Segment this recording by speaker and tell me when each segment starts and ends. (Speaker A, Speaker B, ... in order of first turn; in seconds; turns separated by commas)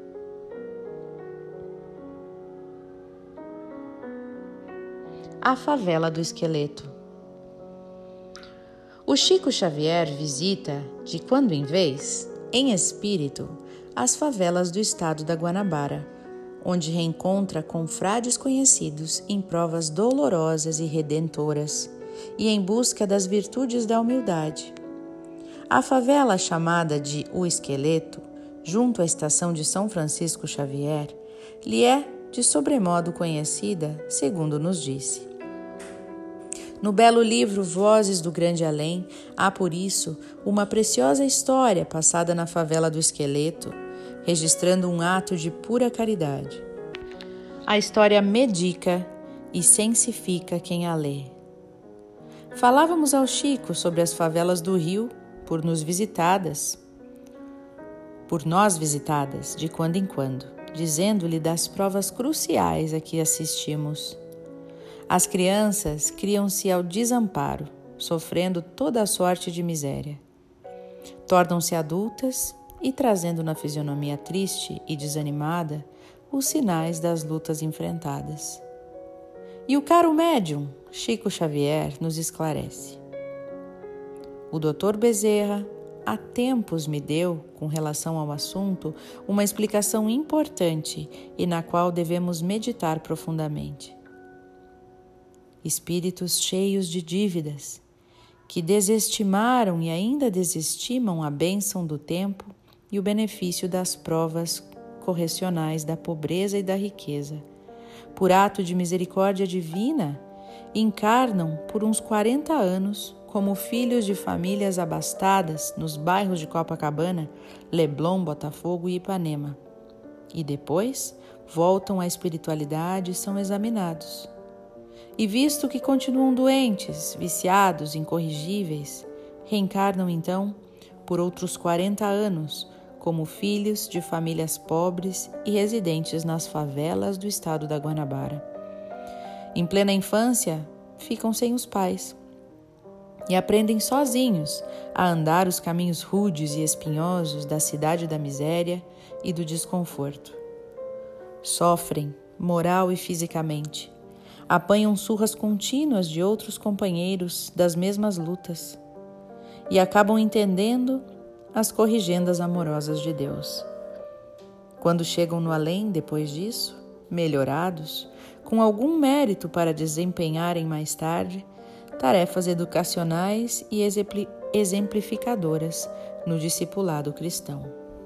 Speaker A: 5.4-6.9, Speaker A: 9.1-16.1, Speaker A: 16.6-24.8, Speaker A: 25.7-35.3, Speaker A: 36.8-46.6, Speaker A: 47.7-51.3, Speaker A: 52.5-56.8, Speaker A: 58.3-64.2, Speaker A: 65.1-70.2, Speaker A: 71.2-78.6, Speaker A: 79.7-83.0, Speaker A: 84.5-94.0, Speaker A: 95.6-97.8, Speaker A: 98.5-107.4, Speaker A: 108.1-110.2, Speaker A: 110.7-119.6, Speaker A: 120.3-124.3, Speaker A: 125.2-138.4, Speaker A: 139.5-142.2, Speaker A: 143.3-150.4, Speaker A: 151.4-153.9, Speaker A: 154.5-158.8, Speaker A: 159.7-163.7, Speaker A: 164.8-171.5, Speaker A: 172.0-177.7